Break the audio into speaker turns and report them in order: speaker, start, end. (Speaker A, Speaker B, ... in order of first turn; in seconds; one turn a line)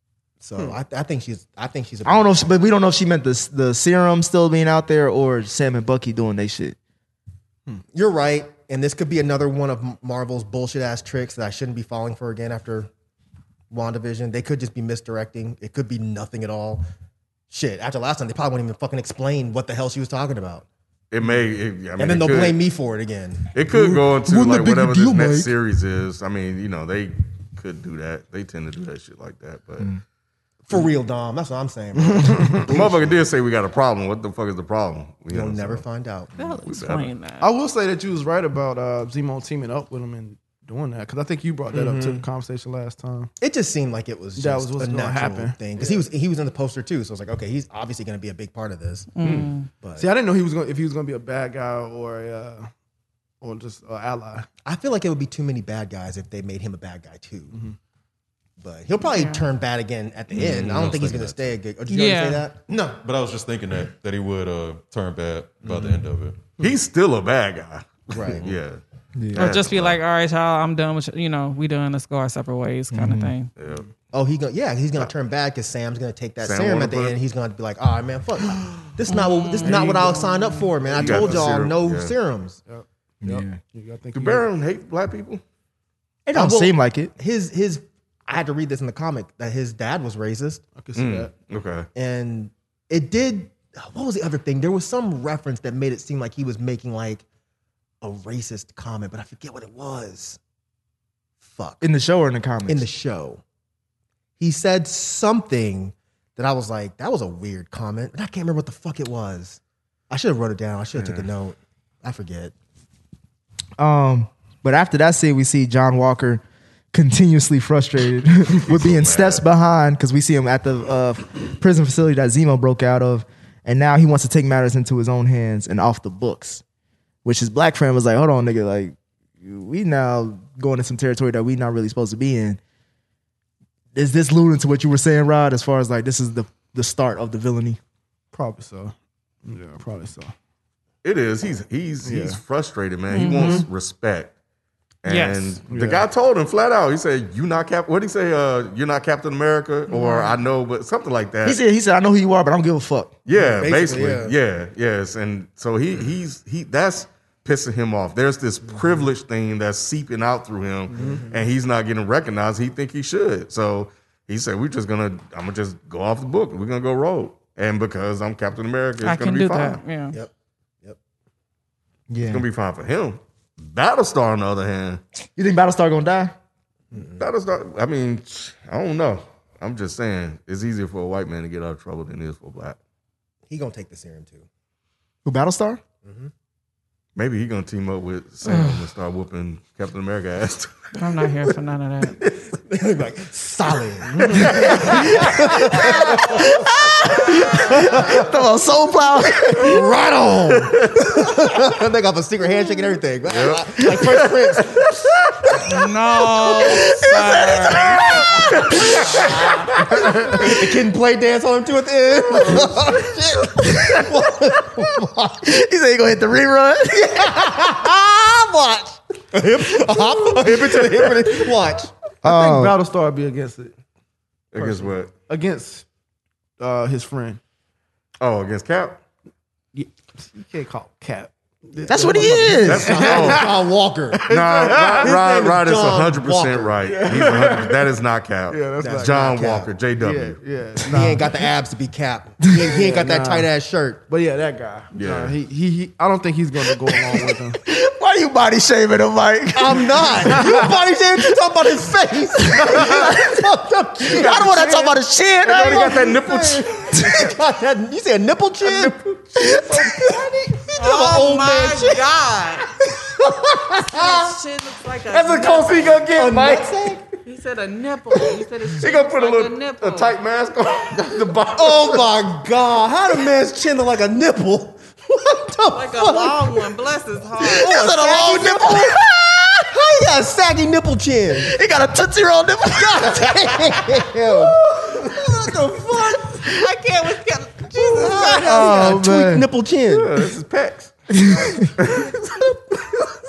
Speaker A: 0.4-2.3
Speaker B: 2.0-6.8
Speaker A: 7.7-12.9
Speaker A: 13.7-16.8
Speaker A: 17.5-20.6
Speaker C: 21.1-22.6
Speaker A: 22.0-23.5
Speaker C: 23.5-29.9
Speaker B: 23.7-25.5
Speaker A: 30.7-33.2
Speaker D: 32.1-32.6
Speaker C: 32.7-35.8
Speaker A: 35.3-36.5
Speaker E: 36.4-37.5
Speaker C: 36.6-37.1
Speaker D: 37.4-43.3
Speaker A: 41.7-42.2
Speaker A: 43.4-49.1
Speaker D: 44.4-46.1
Speaker E: 49.1-49.7
Speaker C: 49.2-49.5
Speaker A: 49.8-50.1
Speaker D: 50.0-52.7
Speaker D: 53.4-54.5
Speaker A: 54.6-57.6
Speaker A: 58.6-63.0
Speaker E: 59.0-59.5
Speaker C: 60.4-61.0
Speaker F: 60.5-61.4
Speaker E: 61.9-62.5
Speaker F: 63.0-66.4
Speaker A: 65.6-66.0
Speaker C: 66.6-68.8
Speaker A: 68.1-68.5
Speaker B: 69.2-69.5
Speaker C: 69.3-70.0
Speaker E: 69.3-73.5
Speaker B: 72.9-73.3
Speaker C: 73.6-73.8
Speaker A: 74.1-82.6
Speaker C: 76.4-77.2
Speaker E: 79.1-80.7
Speaker D: 79.6-80.3
Speaker D: 80.9-81.5
Speaker C: 80.9-82.1
Speaker D: 82.7-84.5
Speaker B: 83.2-83.6
Speaker C: 84.1-85.4
Speaker B: 86.2-87.1
Speaker A: 86.3-90.6
Speaker D: 90.8-91.3
Speaker C: 90.9-91.9
Speaker A: 91.9-97.2
Speaker A: 98.0-100.4
Speaker A: 101.4-101.8
Speaker B: 101.8-102.9
Speaker A: 102.7-103.4
Speaker A: 104.4-112.5
Speaker C: 111.0-111.3
Speaker B: 113.8-126.6
Speaker C: 118.6-119.4
Speaker B: 127.2-132.6
Speaker B: 133.9-137.8
Speaker D: 138.3-140.3
Speaker C: 141.0-144.3
Speaker D: 142.0-142.4
Speaker E: 143.1-143.7
Speaker C: 145.0-151.6
Speaker E: 145.1-145.6
Speaker D: 145.7-146.1
Speaker E: 149.9-150.4
Speaker B: 151.4-153.2
Speaker C: 153.2-169.8
Speaker A: 153.3-154.3
Speaker A: 160.9-161.3
Speaker E: 169.0-170.2
Speaker B: 172.1-172.4
Speaker C: 172.2-175.0
Speaker B: 175.3-176.3
Speaker A: 176.9-177.2
Speaker C: 177.2-182.8
Speaker A: 183.5-184.4
Speaker B: 185.2-185.8
Speaker A: 186.0-186.3
Speaker C: 187.2-191.3
Speaker E: 191.0-192.2
Speaker A: 192.4-196.6
Speaker D: 194.2-194.4
Speaker C: 194.2-195.3
Speaker B: 194.9-199.8
Speaker A: 197.5-198.2
Speaker A: 199.5-204.8
Speaker C: 200.6-201.1
Speaker C: 203.3-204.9
Speaker E: 205.7-208.2
Speaker B: 206.5-210.5
Speaker C: 208.5-209.8
Speaker A: 209.2-215.4
Speaker B: 213.6-214.1
Speaker B: 215.4-217.4
Speaker A: 216.9-221.9
Speaker B: 222.2-222.8
Speaker D: 222.2-223.7
Speaker C: 224.5-225.1
Speaker D: 224.6-225.8
Speaker D: 226.6-227.4
Speaker C: 228.2-229.0
Speaker D: 229.7-233.6
Speaker B: 231.9-233.0
Speaker A: 232.5-234.2
Speaker C: 232.6-233.5
Speaker D: 234.2-235.1
Speaker C: 234.3-240.4
Speaker A: 234.8-236.7
Speaker D: 236.8-237.8
Speaker D: 238.5-239.2
Speaker A: 238.8-239.7
Speaker D: 240.0-241.4
Speaker A: 240.9-244.0
Speaker D: 242.7-243.5
Speaker D: 244.1-247.6
Speaker C: 244.9-245.3
Speaker B: 246.8-250.6
Speaker A: 249.5-254.6
Speaker D: 250.4-250.7
Speaker B: 252.5-253.5
Speaker B: 254.1-256.1
Speaker D: 254.4-254.7
Speaker C: 255.4-257.3
Speaker A: 255.7-261.9
Speaker B: 259.4-260.1
Speaker E: 260.8-262.7
Speaker A: 263.1-264.0
Speaker E: 263.8-266.1
Speaker C: 265.1-266.8
Speaker A: 266.1-267.0
Speaker E: 267.2-270.1
Speaker C: 268.7-272.1
Speaker A: 271.5-276.6
Speaker E: 275.7-278.4
Speaker B: 277.5-279.7
Speaker A: 277.6-279.0
Speaker A: 279.7-281.5
Speaker B: 281.4-286.6
Speaker A: 282.7-286.3
Speaker E: 286.4-288.8
Speaker A: 287.9-290.1
Speaker B: 288.1-289.5
Speaker C: 289.9-293.1
Speaker B: 291.1-291.7